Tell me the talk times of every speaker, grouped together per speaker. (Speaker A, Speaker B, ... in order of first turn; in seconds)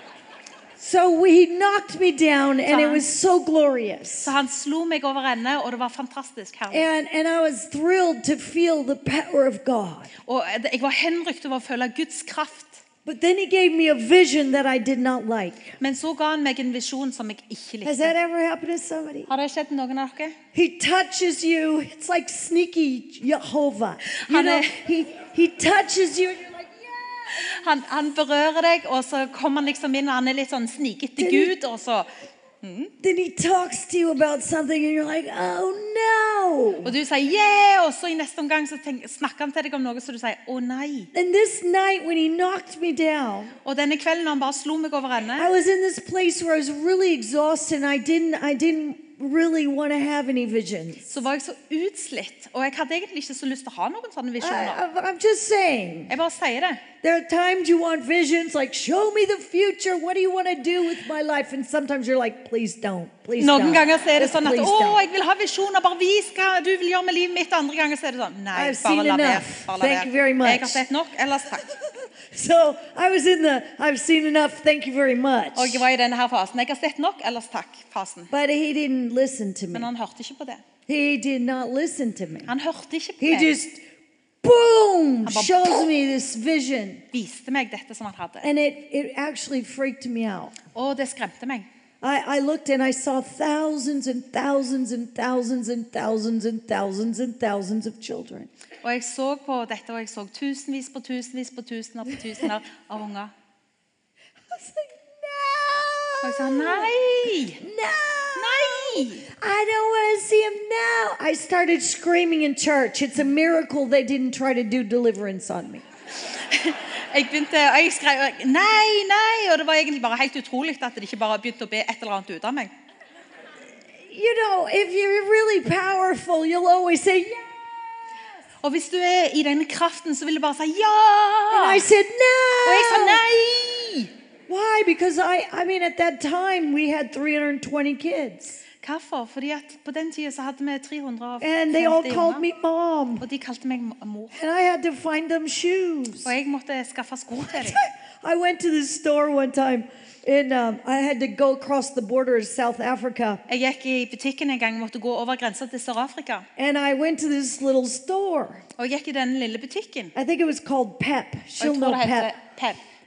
Speaker A: 0.8-4.3, 6.7-10.1, 13.1-15.8, 17.8-19.3, 20.5-27.4, 31.2-31.5, 33.0-36.9, 41.1-43.5, 45.4-51.1, 54.4-56.1, 57.0-65.0, 68.5-70.8, 71.6-75.8, 78.3-79.9, 80.9-82.5, 83.2-83.8, 84.4-87.0, 88.4-90.5, 92.0-98.5, 104.5-115.8, 124.1-127.6, 131.5-133.2, 134.5-138.6, 141.4-143.2, 144.3-146.3, 147.5-153.4, 156.6-158.6, 160.1-162.4
Speaker B: 2.6-3.0, 4.2-6.9, 10.2-12.8, 15.8-18.1, 19.3-20.4, 24.1-24.8, 27.3-32.1, 32.6-32.9, 36.8-41.1, 43.6-45.5, 51.1-54.8, 56.1-56.8, 63.4-71.7, 75.5-78.3, 79.7-80.6, 82.5-83.6, 85.2-85.9, 87.1-88.5, 90.7-91.7, 98.8-103.3, 106.2-107.6, 108.4-109.2, 116.2-122.7, 128.6-131.9, 132.6-134.1, 138.8-142.4, 143.2-144.3, 146.2-147.8, 153.5-156.5, 158.8-160.1, 161.6-162.8